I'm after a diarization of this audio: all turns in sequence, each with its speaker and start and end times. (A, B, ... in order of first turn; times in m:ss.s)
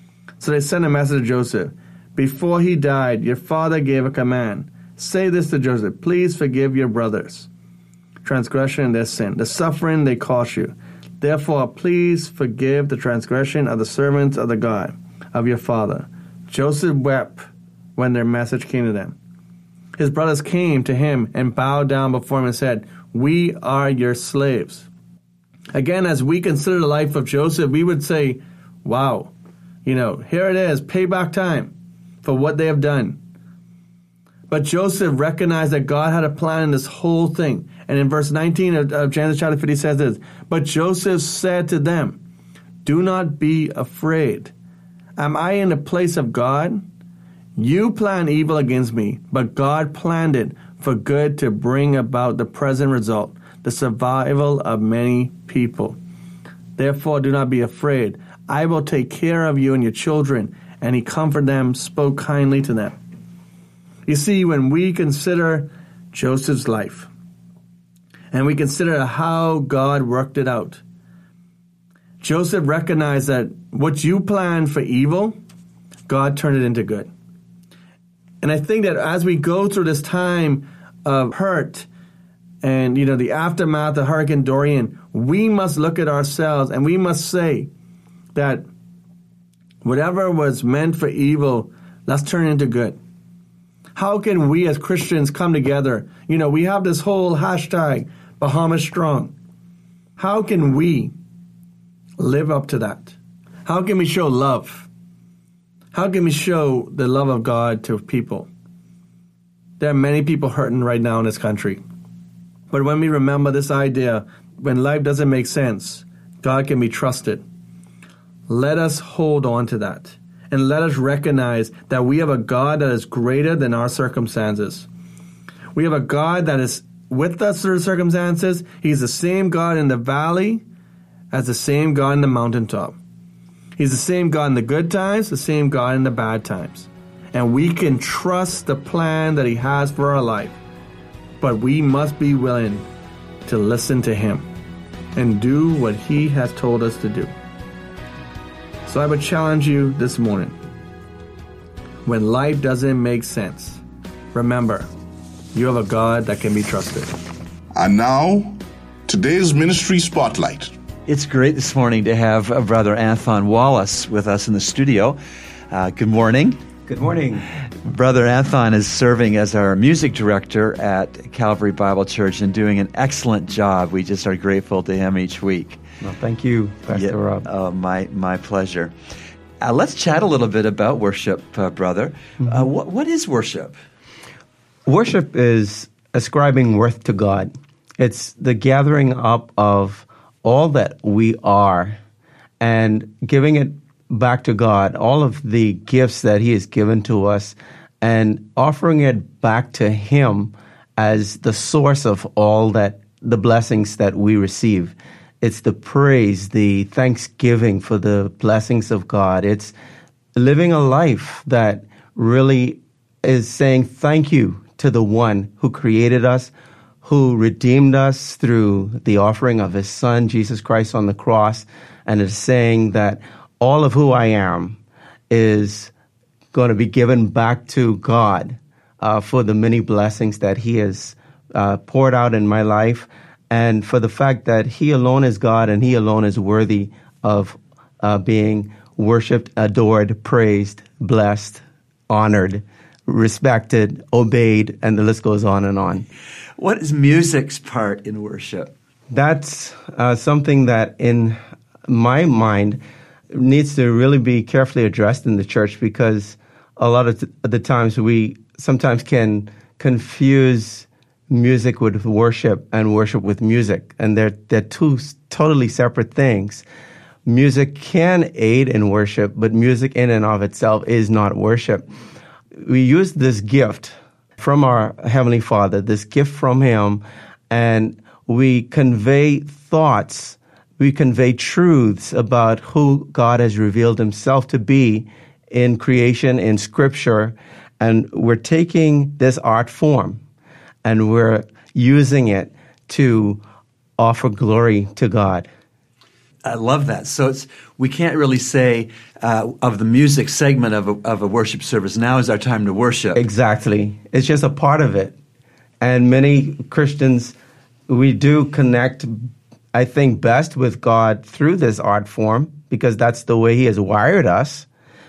0:00.4-0:07.5 A
0:08.2-0:17.4 A
0:18.0-0:19.2 A
0:20.0-0:24.9 A
0:25.7-0:29.3 A
0:29.8-0:33.2 A
0:34.5-0:42.2 A
0:42.8-0:44.5 A
0:45.2-0:46.8 A
0:47.6-0:56.0 A
0:56.8-1:03.0 A
1:04.1-1:07.1 A
1:08.3-1:10.8 A
1:12.2-1:15.4 A
1:16.1-1:17.1 A
1:18.4-1:21.9 A
1:22.6-1:27.7 A
1:28.3-1:28.6 A
1:29.8-1:33.0 A
1:34.0-1:39.3 A
1:40.2-1:41.1 A
1:42.2-1:44.9 A
1:45.9-1:48.5 A
1:49.8-1:51.8 A
1:52.7-1:57.4 A
1:58.5-2:04.9 A
2:05.7-2:10.6 A
2:11.3-2:13.0 A
2:13.8-2:20.6 A
2:21.4-2:22.8 A
2:23.4-2:24.4 A
2:25.1-2:27.3 A
2:28.8-2:30.6 A
2:32.0-2:33.8 A
2:34.3-2:34.9 A
2:35.5-2:37.1 A
2:37.7-2:40.7 B
2:41.1-2:45.2 C
2:45.7-2:46.6 C
2:46.9-2:47.4 D
2:47.8-2:55.8 C
2:56.0-2:57.4 D
2:56.9-2:58.9 C
2:59.6-3:03.8 C
3:04.9-3:12.0 D
3:12.6-3:29.7 D
3:30.3-3:36.5 D
3:37.0-3:44.8 D
3:45.3-3:45.9 D
3:46.5-4:06.0 D
4:06.6-4:08.7 C
4:09.1-4:12.8 D
4:13.3-4:26.6 D
4:27.2-4:31.9 D
4:32.6-4:50.2 D
4:50.8-4:53.4 D
4:54.0-4:55.5 D
4:56.4-5:03.2 C
5:03.1-5:05.1 D
5:05.8-5:07.3 D
5:07.9-5:14.7 D